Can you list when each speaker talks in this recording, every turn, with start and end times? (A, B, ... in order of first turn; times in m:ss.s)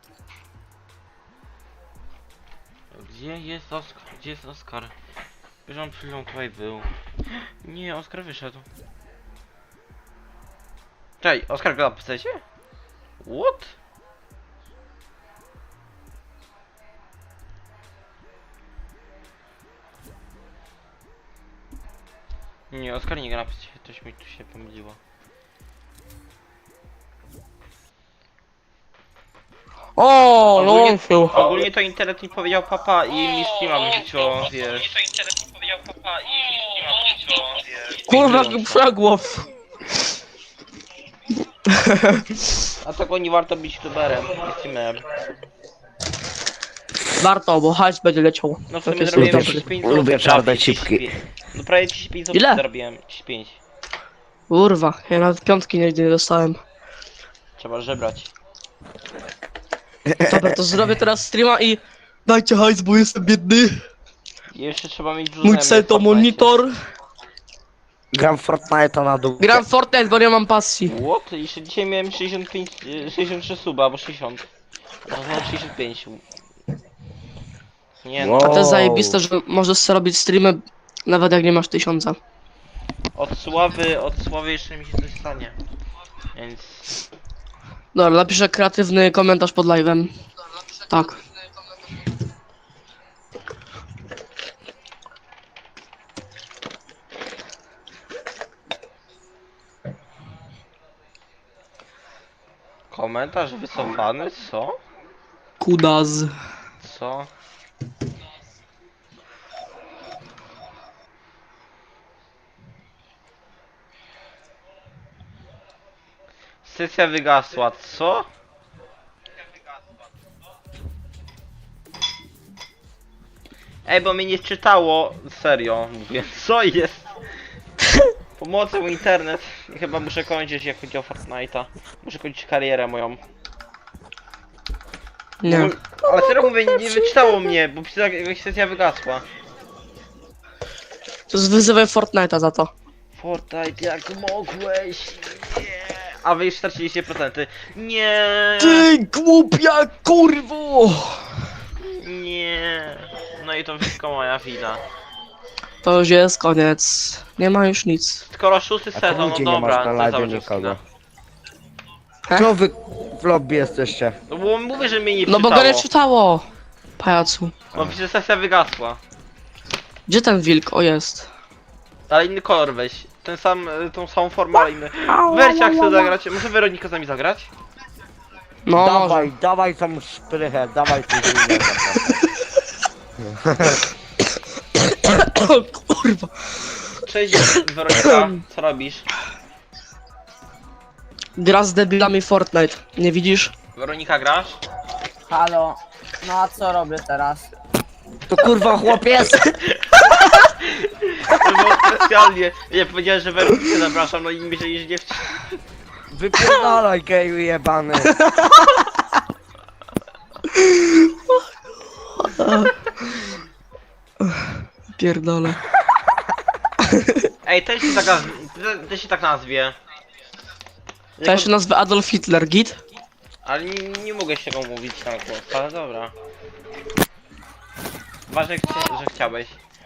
0:02.9-0:04.9 A
0:05.7-0:06.9 A
0:07.6-0:08.7 A
0:11.2-0:12.4 A
0:13.2-0:13.7 A
0:22.7-0:25.0 A
0:30.0-0:31.4 B
0:30.6-0:35.1 A
0:36.2-0:38.8 A
0:38.1-0:39.5 B
0:41.7-0:42.3 B
0:42.8-0:45.1 A
0:47.2-0:49.6 B
0:48.7-0:53.6 A
0:49.2-0:51.1 C
0:52.3-0:52.6 B
0:54.5-0:56.6 B
0:57.6-0:58.3 A
1:00.1-1:00.6 C
1:00.2-1:03.9 B
1:04.5-1:06.5 A
1:05.4-1:06.8 B
1:08.1-1:09.6 C
1:09.4-1:11.0 B
1:10.9-1:14.5 A
1:15.1-1:16.2 A
1:18.0-1:18.7 A
1:18.2-1:19.2 C
1:18.4-1:22.2 B
1:23.2-1:25.6 A
1:26.4-1:27.0 A
1:27.9-1:30.1 B
1:30.9-1:31.2 B
1:42.9-1:44.8 A
1:45.6-1:46.4 B
1:46.8-1:47.3 A
1:56.6-1:58.3 A
2:03.9-2:07.1 A
2:08.4-2:13.2 A
2:15.4-2:15.8 B
2:15.4-2:19.3 A
2:21.3-2:22.7 B
2:23.2-2:28.9 A
2:28.6-2:31.2 B
2:31.8-2:34.8 A
2:35.8-2:38.2 B
2:38.3-2:40.8 A
2:38.9-2:40.8 C
2:42.3-2:44.2 C
2:44.3-2:45.9 A
2:45.3-2:46.5 B
2:47.0-2:47.6 B
2:47.8-2:49.0 A
2:50.1-2:51.3 B
2:52.1-2:57.5 A
2:55.1-2:56.1 B
2:58.7-2:59.3 B
2:58.8-3:02.2 C
3:03.2-3:03.8 C
3:04.9-3:06.3 B
3:07.0-3:09.1 A
3:11.4-3:13.5 B
3:13.8-3:14.6 A
3:15.3-3:17.5 D
3:18.3-3:19.4 C
3:19.6-3:25.6 A
3:26.1-3:28.1 C
3:28.2-3:28.7 B
3:30.5-3:31.1 B
3:32.2-3:32.8 B
3:34.2-3:35.6 B
3:36.9-3:37.3 B
3:37.4-3:39.8 A
3:41.2-3:41.5 A
3:41.2-3:42.8 B
3:43.4-3:46.1 A
3:48.3-3:49.6 A